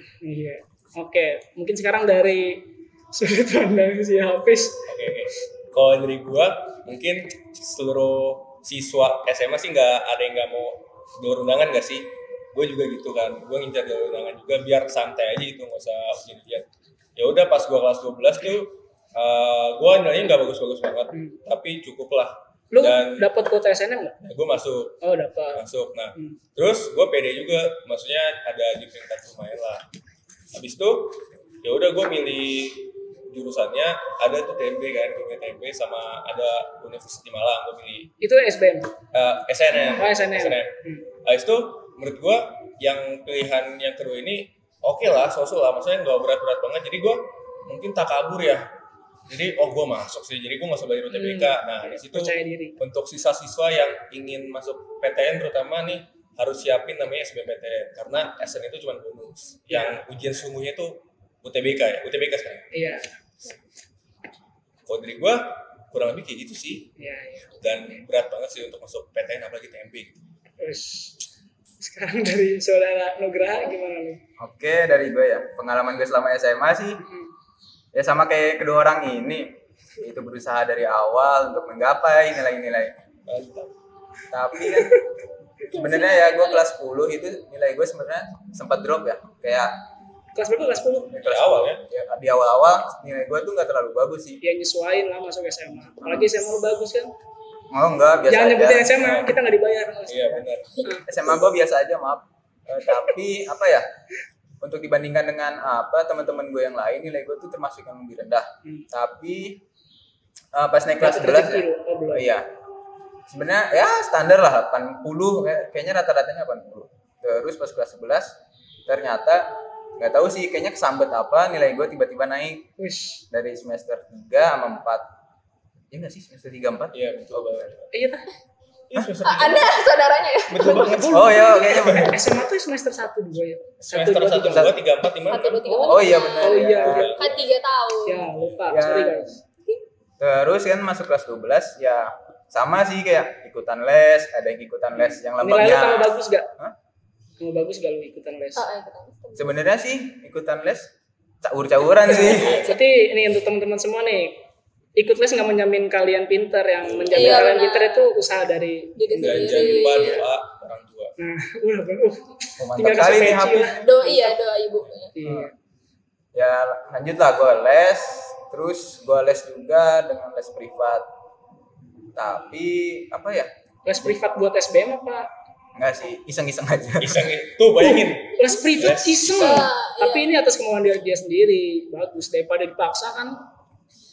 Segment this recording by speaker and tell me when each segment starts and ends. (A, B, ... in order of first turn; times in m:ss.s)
0:00.2-0:04.9 A
0:04.8-0:23.3 B
0:21.1-0:21.4 A
0:22.7-0:24.2 A
0:24.2-0:25.0 B
0:25.0-0:25.6 A
0:25.5-0:29.8 B
0:30.5-0:38.1 B
0:38.2-0:38.9 A
0:39.1-0:48.7 B
0:39.8-0:41.0 A
0:49.3-1:02.7 B
0:51.1-0:52.8 A
0:59.7-1:00.0 A
1:02.7-1:03.1 A
1:04.8-1:06.9 B
1:07.0-1:07.9 A
1:07.6-1:10.2 B
1:10.6-1:11.2 A
1:11.8-1:14.2 A
1:14.4-1:17.0 C
1:17.0-1:17.3 A
1:17.9-1:23.0 C
1:23.3-1:23.7 B
1:24.3-1:25.0 C
1:24.8-1:25.0 A
1:25.7-1:26.6 D
1:25.7-1:29.8 C
1:30.4-1:31.1 A
1:31.1-1:34.4 C
1:31.1-1:31.8 B
1:34.4-1:37.1 A
1:37.7-1:39.0 C
1:38.3-1:41.0 A
1:39.0-1:39.4 B
1:40.1-1:41.0 B
1:41.0-1:43.8 C
1:44.6-1:49.6 C
1:50.5-1:52.5 C
1:51.0-1:52.3 A
1:53.3-1:58.3 C
1:58.8-1:59.5 C
2:00.0-2:02.7 C
2:02.8-2:03.2 A
2:03.3-2:05.1 C
2:05.9-2:07.7 C
2:06.9-2:07.9 B
2:07.9-2:08.3 A
2:08.9-2:09.8 B
2:09.2-2:11.4 D
2:10.5-2:12.1 B
2:11.1-2:12.2 C
2:11.2-2:11.5 A
2:12.0-2:14.8 A
2:13.8-2:15.6 B
2:14.5-2:14.7 C
2:15.3-2:18.2 D
2:15.6-2:17.2 A
2:15.8-2:17.2 C
2:16.6-2:17.5 B
2:18.0-2:19.4 A
2:18.3-2:18.6 B
2:18.7-2:19.3 C
2:20.2-2:26.7 C
2:25.4-2:26.5 A
2:27.4-2:28.6 A
2:28.6-2:29.6 D
2:29.4-2:32.6 C
2:32.0-2:34.4 A
2:32.2-2:32.8 D
2:32.3-2:32.6 B
2:35.0-2:39.8 A
2:36.8-2:37.4 B
2:37.1-2:38.1 D
2:39.0-2:40.2 D
2:39.1-2:41.1 B
2:41.2-2:44.4 A
2:42.6-2:43.9 C
2:43.8-2:45.1 D
2:45.1-2:45.5 A
2:45.2-2:45.5 C
2:46.3-2:51.1 C
2:52.1-2:53.5 C
2:53.8-2:55.3 A
2:55.8-2:57.3 C
2:57.0-2:59.7 B
2:57.8-3:03.4 A
2:59.3-3:00.3 D